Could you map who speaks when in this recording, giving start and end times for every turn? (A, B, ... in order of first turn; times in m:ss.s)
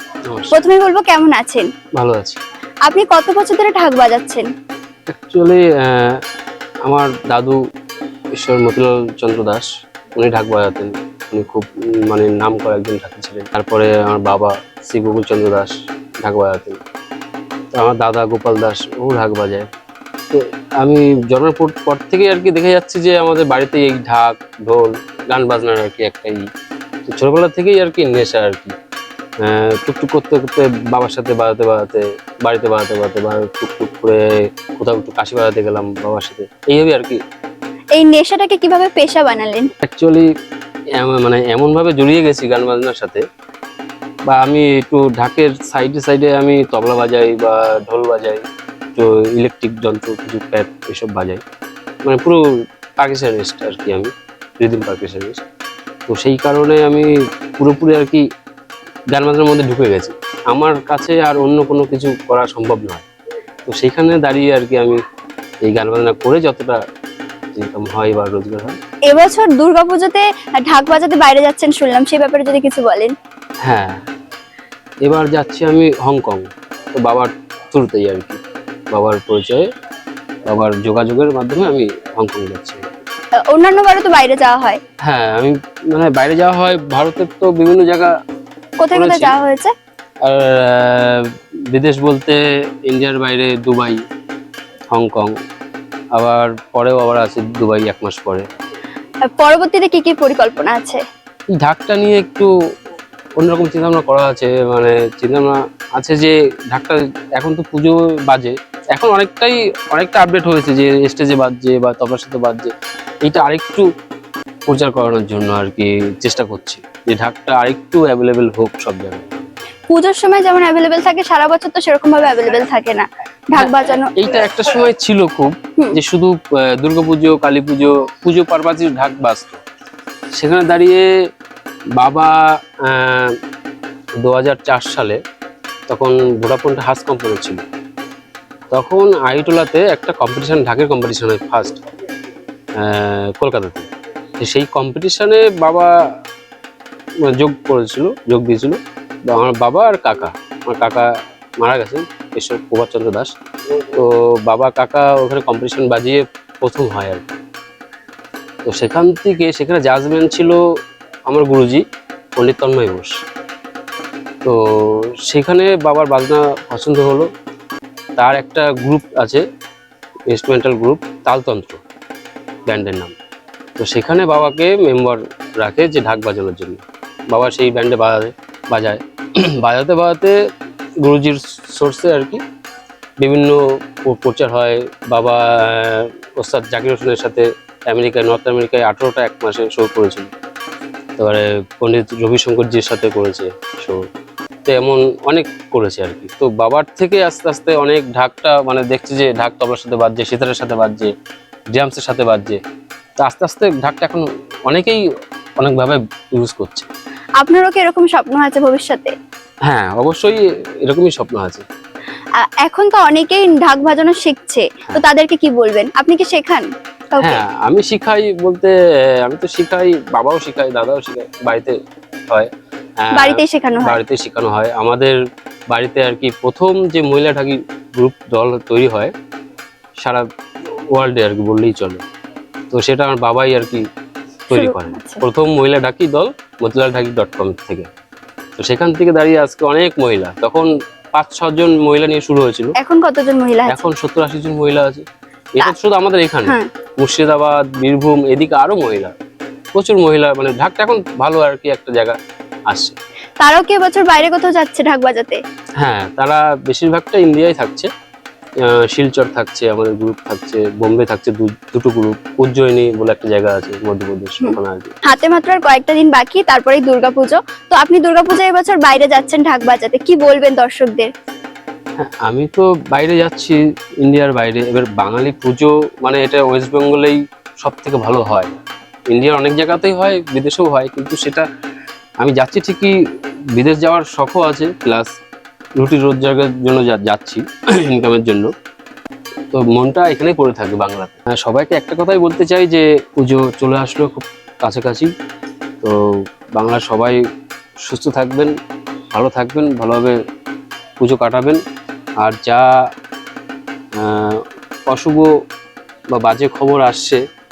0:00.3-0:00.6 A
0:00.5-0:01.7 B
0:02.0-0:02.4 A
0:02.9-0:04.5 B
0:05.1-0:06.2 A
0:06.8-0:07.6 A
0:08.3-0:16.8 A
0:17.7-0:19.7 A
0:20.3-0:26.5 A
0:27.1-0:28.8 A
0:29.4-0:37.2 A
0:38.0-0:39.7 B
0:39.8-0:40.3 A
0:41.0-0:43.2 A
0:44.3-0:48.4 A
0:49.0-0:51.4 A
0:52.0-0:52.4 A
0:53.0-0:55.4 A
0:56.1-0:58.2 A
0:59.1-1:03.1 A
1:03.6-1:05.0 A
1:05.6-1:06.8 A
1:07.5-1:08.8 A
1:09.1-1:13.2 B
1:13.6-1:14.0 A
1:15.0-1:18.4 A
1:18.9-1:19.6 A
1:20.5-1:22.8 A
1:23.5-1:24.8 B
1:25.0-1:28.1 A
1:28.8-1:29.7 B
1:28.9-1:29.4 A
1:30.2-1:34.0 A
1:34.9-1:35.3 A
1:36.2-1:38.4 A
1:39.4-1:41.0 B
1:41.5-1:42.5 A
1:43.4-1:53.9 A
1:54.7-1:59.3 A
1:59.9-2:04.1 B
2:03.6-2:09.6 A
2:10.3-2:11.1 A
2:12.0-2:13.4 A
2:14.2-2:15.2 A
2:15.9-2:17.6 A
2:18.7-2:21.8 A
2:22.8-2:25.9 A
2:27.2-2:37.4 A
2:38.6-2:40.6 A
2:41.3-2:41.8 A
2:42.4-2:43.2 A
2:44.4-2:47.3 A
2:48.2-2:49.4 A
2:50.3-2:51.8 A
2:52.7-2:53.1 A
2:53.8-3:00.4 A
3:01.0-3:02.4 A
3:03.2-3:10.3 A
3:11.2-3:14.0 A
3:14.7-3:21.1 A
3:21.7-3:22.6 A
3:23.2-3:25.0 A
3:25.6-3:26.9 A
3:27.4-3:29.1 B
3:29.7-3:31.6 A
3:32.4-3:37.4 B
3:37.2-3:41.8 A
3:43.0-3:45.2 A
3:43.1-3:44.0 B
3:45.7-3:49.1 A
3:50.0-3:52.0 A
3:52.7-3:53.8 A
3:54.5-3:55.2 B
3:54.5-3:57.9 A
3:58.6-4:02.8 A
4:02.8-4:03.8 B
4:03.7-4:09.1 A
4:06.4-4:06.7 B
4:09.7-4:12.2 A
4:12.7-4:13.0 A
4:13.4-4:15.4 B
4:15.8-4:17.9 A
4:18.6-4:25.0 A
4:24.4-4:31.1 B
4:32.0-4:38.5 A
4:39.1-4:41.5 A
4:42.2-4:43.0 A
4:43.5-4:45.1 A
4:45.8-4:48.5 A
4:49.5-4:55.1 A
4:55.8-4:57.2 A
4:57.8-4:58.6 A
4:59.1-5:00.2 A
5:01.0-5:01.6 A
5:02.2-5:02.9 A
5:03.9-5:05.3 A
5:06.1-5:07.2 A